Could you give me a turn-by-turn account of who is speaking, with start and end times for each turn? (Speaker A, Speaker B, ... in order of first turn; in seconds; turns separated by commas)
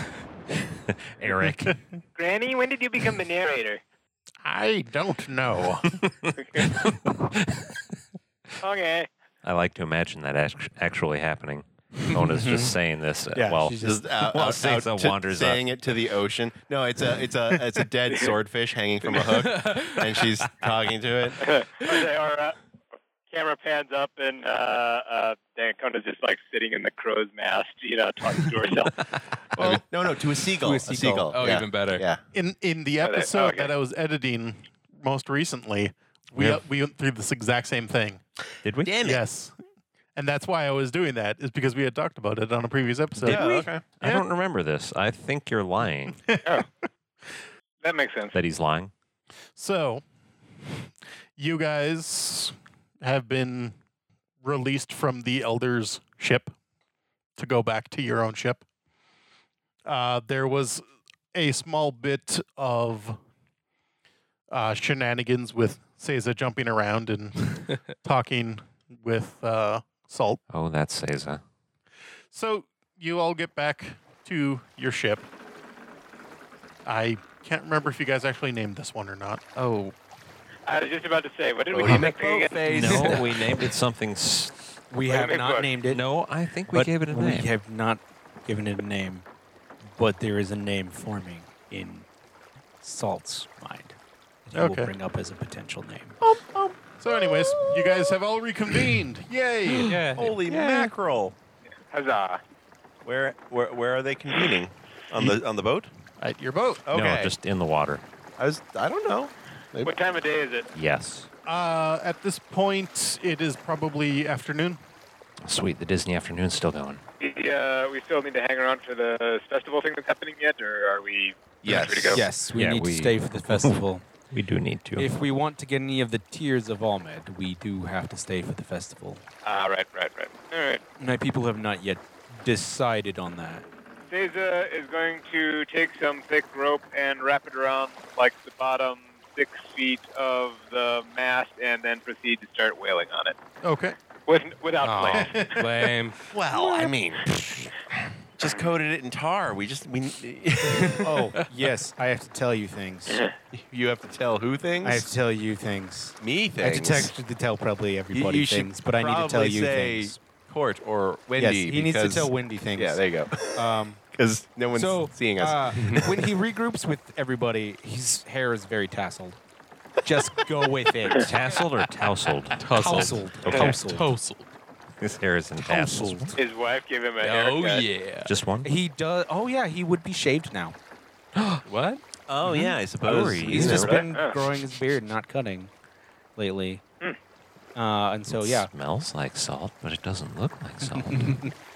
Speaker A: 0.9-1.7, Speaker B: 1.2-1.8, Speaker C: 2.2-3.8, Speaker B: 4.4-6.1, Speaker A: 6.7-7.7, Speaker C: 8.6-9.1, Speaker A: 9.4-15.6, Speaker D: 13.3-14.1, Speaker E: 13.8-21.5, Speaker F: 19.1-20.5, Speaker C: 21.4-22.6, Speaker F: 21.8-22.1, Speaker C: 23.3-28.9, Speaker E: 29.6-32.2, Speaker D: 30.6-31.3, Speaker F: 31.3-32.0, Speaker B: 32.3-38.2, Speaker C: 33.0-33.7, Speaker A: 36.4-36.6, Speaker A: 38.6-39.0, Speaker E: 38.8-39.2, Speaker B: 39.0-39.5, Speaker B: 40.1-44.3, Speaker E: 43.2-43.8, Speaker A: 43.2-46.2, Speaker B: 46.2-46.5, Speaker C: 47.8-48.4, Speaker A: 48.3-48.9, Speaker B: 49.5-50.0, Speaker B: 50.7-53.8, Speaker B: 54.4-56.5, Speaker B: 57.4-58.6, Speaker B: 59.9-63.2, Speaker B: 64.5-70.4, Speaker A: 70.5-71.4, Speaker B: 72.3-75.3, Speaker B: 76.8-79.4, Speaker F: 79.6-80.0, Speaker C: 80.7-82.7, Speaker E: 81.7-83.3, Speaker A: 82.6-84.5, Speaker D: 82.8-83.2, Speaker F: 82.8-83.7, Speaker D: 84.9-86.0, Speaker C: 85.1-85.7, Speaker A: 85.9-87.5, Speaker D: 86.7-89.2, Speaker D: 89.9-92.1, Speaker D: 92.8-96.2, Speaker B: 94.5-94.9, Speaker E: 96.2-98.0, Speaker B: 97.0-100.9, Speaker F: 99.8-100.9, Speaker E: 100.2-101.3, Speaker C: 101.9-102.4, Speaker E: 103.0-105.9, Speaker B: 106.2-106.9, Speaker E: 106.9-107.3, Speaker A: 106.9-108.0, Speaker E: 108.4-109.9, Speaker C: 109.8-110.7, Speaker A: 110.7-111.3, Speaker B: 111.5-114.8, Speaker A: 115.5-117.0, Speaker C: 117.2-122.2, Speaker E: 121.6-122.2, Speaker D: 122.1-124.0, Speaker A: 122.5-123.7, Speaker A: 124.3-125.1, Speaker D: 125.0-129.2, Speaker C: 129.4-130.8, Speaker D: 131.0-133.7, Speaker C: 134.1-143.4, Speaker B: 143.6-144.0, Speaker C: 144.3-145.6, Speaker F: 144.8-146.2, Speaker B: 145.1-145.6, Speaker E: 146.3-151.3, Speaker C: 148.4-148.7, Speaker F: 150.7-151.4, Speaker B: 151.0-151.4, Speaker D: 151.1-153.3, Speaker C: 153.1-153.3, Speaker E: 153.5-155.1, Speaker D: 154.8-160.2, Speaker E: 156.2-157.1, Speaker E: 158.1-166.2, Speaker D: 161.4-164.0, Speaker D: 164.7-169.4, Speaker F: 165.8-166.0, Speaker D: 170.0-171.4, Speaker A: 171.2-172.7, Speaker F: 172.6-174.6, Speaker D: 172.7-174.1, Speaker A: 175.0-176.3, Speaker D: 175.6-176.4, Speaker C: 176.4-177.8, Speaker F: 177.2-178.3, Speaker A: 178.2-178.7, Speaker D: 178.6-180.8, Speaker A: 181.3-181.6, Speaker F: 181.7-182.0, Speaker E: 182.3-184.1, Speaker A: 183.0-184.1, Speaker D: 183.5-185.7, Speaker C: 184.0-184.4, Speaker D: 186.4-186.8, Speaker D: 187.8-188.7, Speaker A: 188.3-191.4, Speaker D: 190.9-191.5